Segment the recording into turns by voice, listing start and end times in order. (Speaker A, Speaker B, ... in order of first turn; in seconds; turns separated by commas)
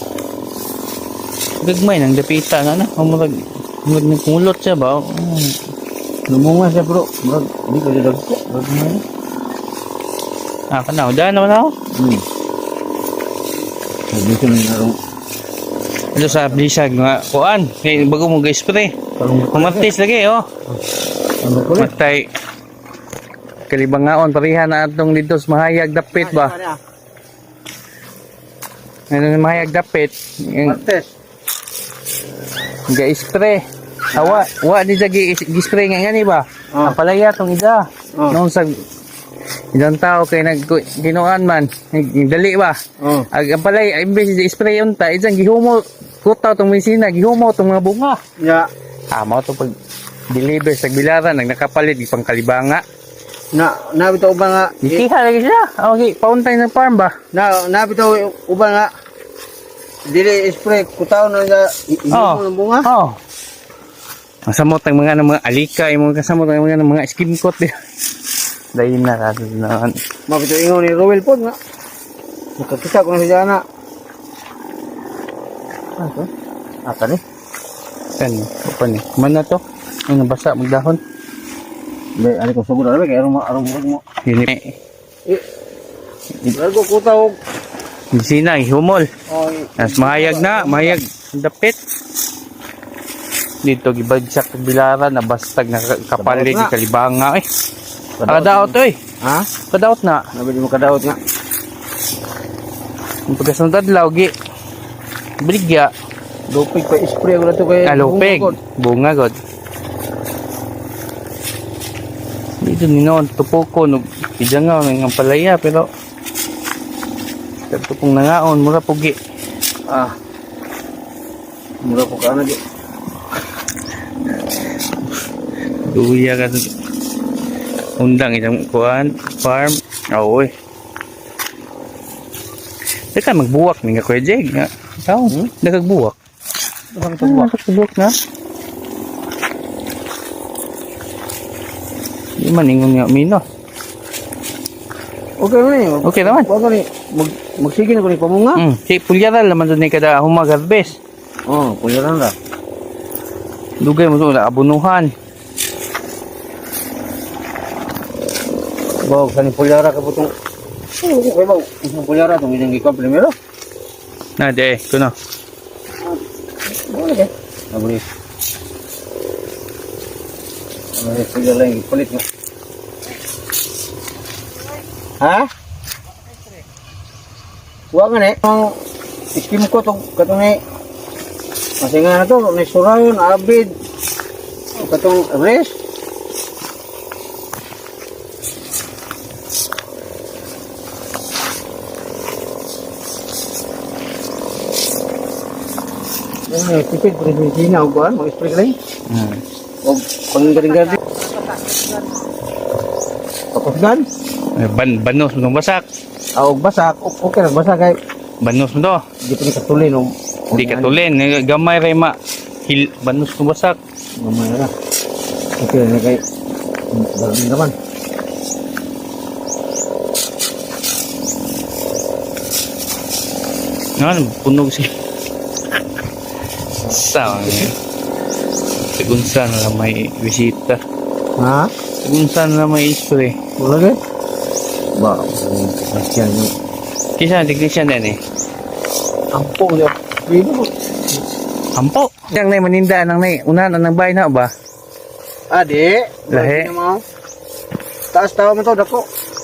Speaker A: 1.6-5.5, Speaker B: 6.3-8.8, Speaker A: 10.7-11.7, Speaker B: 11.9-12.2, Speaker B: 14.1-14.9, Speaker A: 16.1-18.9, Speaker B: 16.2-16.6, Speaker B: 19.2-19.9, Speaker A: 19.5-20.4, Speaker B: 21.4-21.9, Speaker A: 21.8-22.3, Speaker A: 23.7-26.6, Speaker B: 26.1-26.8, Speaker A: 29.1-30.8, Speaker B: 30.6-31.1, Speaker A: 32.9-33.6, Speaker B: 34.1-34.4, Speaker A: 34.1-38.7, Speaker A: 39.7-42.8, Speaker B: 43.0-43.3, Speaker A: 43.3-48.2, Speaker B: 48.4-48.7, Speaker A: 49.1-49.7, Speaker A: 50.3-52.8, Speaker B: 53.5-55.0, Speaker A: 54.8-57.1, Speaker B: 57.3-58.9, Speaker B: 60.1-62.9, Speaker A: 62.1-63.2, Speaker A: 64.5-67.7, Speaker A: 68.7-69.9, Speaker B: 70.3-71.6, Speaker B: 72.6-73.6, Speaker B: 76.0-76.3, Speaker B: 76.8-77.2, Speaker A: 78.2-81.0, Speaker B: 82.2-84.0, Speaker A: 84.2-84.7, Speaker B: 86.5-87.4, Speaker A: 88.1-89.1, Speaker B: 89.3-91.0, Speaker A: 89.8-91.8, Speaker A: 93.6-97.5, Speaker B: 96.2-96.7, Speaker B: 98.2-99.5, Speaker A: 98.2-99.0, Speaker A: 99.7-100.2, Speaker B: 100.3-101.2, Speaker A: 103.3-104.3, Speaker A: 105.4-105.9, Speaker B: 106.5-108.6, Speaker A: 107.8-109.3, Speaker A: 112.6-115.9, Speaker A: 117.7-119.2, Speaker B: 119.9-120.1, Speaker B: 121.8-122.6, Speaker A: 125.8-126.6, Speaker A: 128.0-130.5, Speaker A: 133.1-136.1, Speaker B: 136.9-137.5, Speaker A: 137.2-138.1, Speaker A: 142.4-143.4, Speaker B: 145.4-148.6, Speaker A: 146.0-146.5, Speaker A: 148.6-151.0, Speaker B: 151.5-152.3, Speaker A: 153.8-155.1, Speaker B: 159.0-160.3, Speaker B: 161.0-163.3, Speaker A: 164.4-165.1, Speaker B: 166.1-168.0, Speaker B: 170.9-172.2, Speaker B: 175.2-175.5, Speaker B: 177.9-178.7, Speaker B: 179.3-180.6, Speaker B: 181.8-183.7, Speaker B: 184.8-185.8, Speaker B: 196.5-198.8, Speaker A: 199.1-199.4, Speaker B: 199.8-201.0, Speaker B: 203.5-204.1, Speaker A: 204.6-205.8, Speaker B: 206.3-208.0, Speaker A: 208.4-209.0, Speaker B: 209.2-211.0, Speaker A: 210.5-212.1, Speaker A: 212.7-213.8, Speaker B: 214.2-214.7, Speaker B: 215.6-216.2, Speaker B: 216.9-217.7, Speaker A: 224.0-224.9, Speaker B: 226.8-227.7, Speaker A: 226.9-227.7, Speaker A: 229.0-230.8, Speaker B: 231.4-231.7, Speaker A: 232.0-233.3, Speaker B: 233.6-234.0, Speaker B: 235.0-236.5, Speaker A: 237.2-238.2, Speaker B: 239.3-241.2, Speaker A: 241.8-244.5, Speaker B: 245.5-247.0, Speaker A: 246.3-246.7, Speaker B: 248.1-249.1